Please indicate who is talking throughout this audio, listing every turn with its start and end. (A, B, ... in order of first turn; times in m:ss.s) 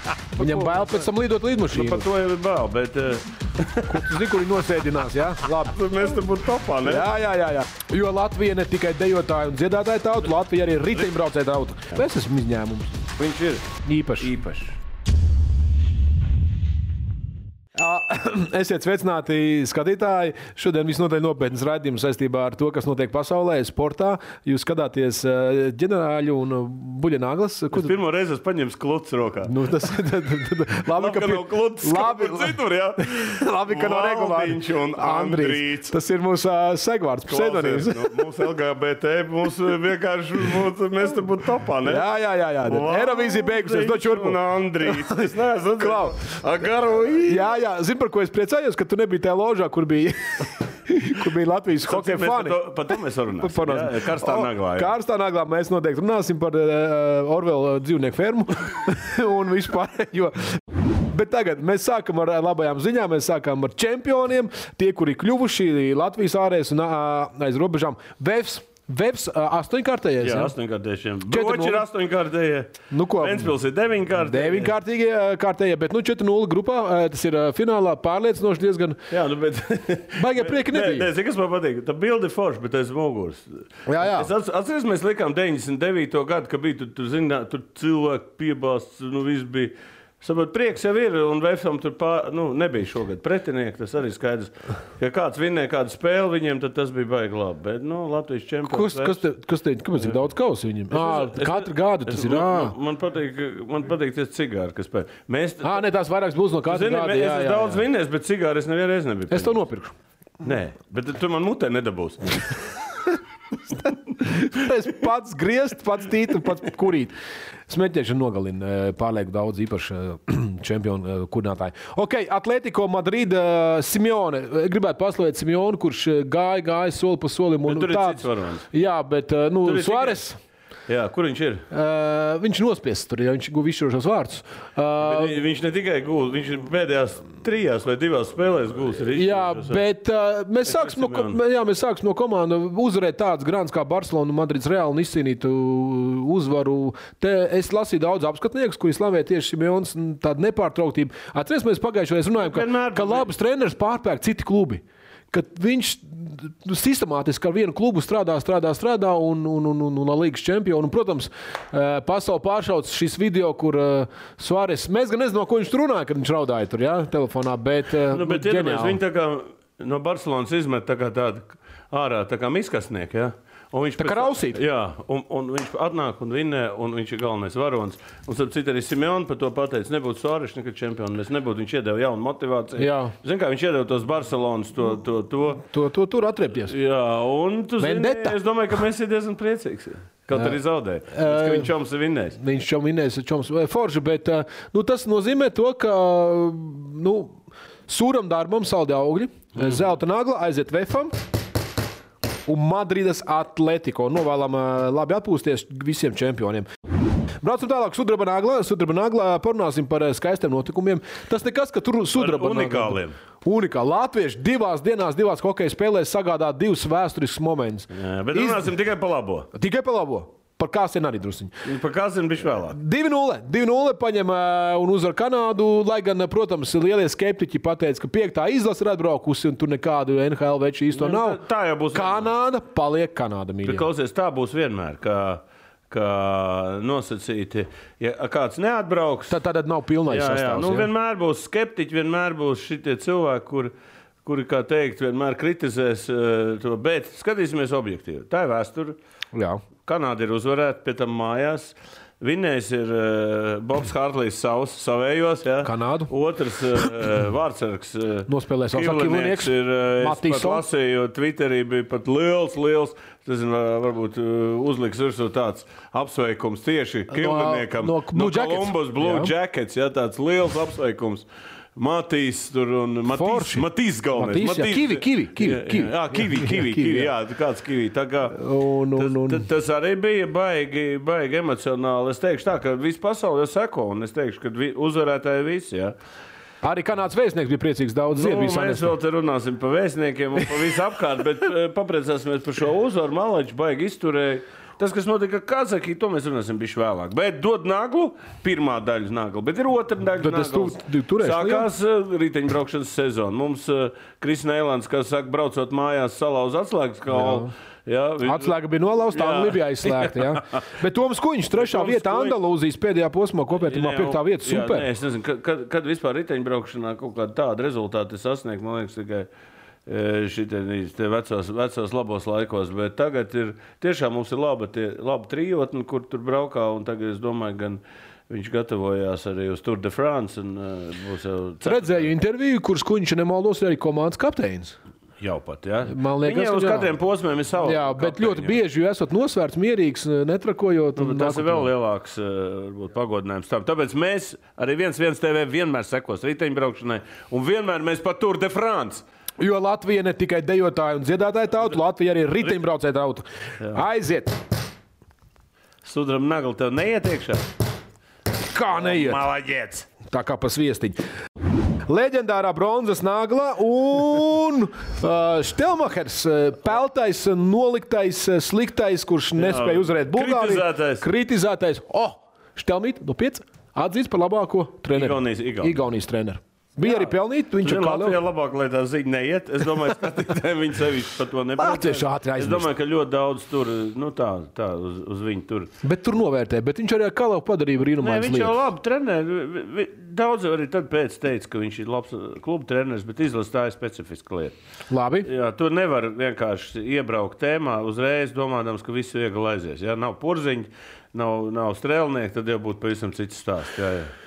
0:00.4-0:01.1 A
0:00.4-0:02.1 B
0:01.7-0:04.1 A
0:03.9-0:06.2 B
0:05.7-0:07.1 A
0:06.8-0:13.0 B
0:13.2-0:14.8 A
0:13.8-0:14.3 B
0:17.8-0:27.9 B
0:27.7-0:29.6 A
0:29.5-0:38.5 B
0:30.9-0:36.0 A
0:37.3-0:42.0 A
0:41.8-0:45.2 B
0:42.6-0:47.5 A
0:45.8-0:46.1 B
0:47.2-1:10.5 B
0:51.9-0:54.9 A
1:10.2-1:14.7 A
1:11.3-1:11.8 B
1:12.9-1:13.5 B
1:14.2-1:19.0 B
1:19.1-1:39.2 A
1:20.2-1:21.1 B
1:23.9-1:24.3 B
1:38.7-1:42.8 B
1:40.9-1:45.8 A
1:45.6-1:47.9 B
1:46.6-1:49.6 A
1:49.3-1:50.0 B
1:50.4-1:52.7 A
1:53.7-1:57.2 B
1:57.7-2:10.4 B
2:07.6-2:08.7 A
2:09.6-2:10.2 A
2:10.9-2:11.7 A
2:11.7-2:15.4 B
2:15.0-2:19.8 A
2:19.1-2:49.0 B
2:20.7-2:21.4 A
2:32.4-2:33.3 A
2:48.1-3:05.6 A
2:54.0-2:54.6 B
3:02.8-3:03.1 B
3:05.6-3:06.7 B
3:06.6-3:12.4 A
3:07.8-3:08.4 B
3:11.1-3:11.7 B
3:12.4-3:21.1 B
3:19.6-3:19.8 A
3:22.5-3:26.7 B
3:27.4-3:38.7 B
3:32.2-3:33.2 A
3:37.9-3:39.5 A
3:39.5-3:41.6 B
3:41.6-3:42.8 A
3:42.7-3:51.4 B
3:50.9-3:52.3 A
3:51.9-3:53.9 B
3:53.6-3:59.4 A
3:59.3-4:00.9 B
4:00.1-4:03.7 A
4:04.2-4:09.0 A
4:09.3-4:09.6 B
4:09.8-4:38.4 A
4:15.6-4:16.1 B
4:18.3-4:20.6 B
4:27.1-4:29.3 B
4:33.1-4:37.1 B
4:38.3-4:39.5 B
4:39.0-4:46.0 A
4:46.6-4:48.9 B
4:48.1-5:08.5 A
5:00.2-5:01.7 B
5:07.1-5:07.5 B
5:08.2-5:14.9 B
5:09.1-5:10.2 A
5:11.6-5:12.4 A
5:13.6-5:19.3 A
5:19.9-5:32.1 A
5:31.6-5:34.8 B
5:35.2-5:38.6 A
5:35.9-5:36.9 B
5:37.6-5:41.7 B
5:41.0-5:49.0 A
5:49.4-5:54.4 B
5:55.8-5:57.5 A
5:58.5-5:59.2 B
5:58.7-5:59.9 A
6:00.0-6:01.0 B
6:01.9-6:18.2 B
6:09.4-6:11.1 A
6:14.9-6:15.8 A
6:16.8-6:25.7 A
6:21.6-6:22.7 B
6:25.8-6:28.6 B
6:28.0-6:34.6 A
6:34.9-6:35.3 B
6:35.2-6:44.1 A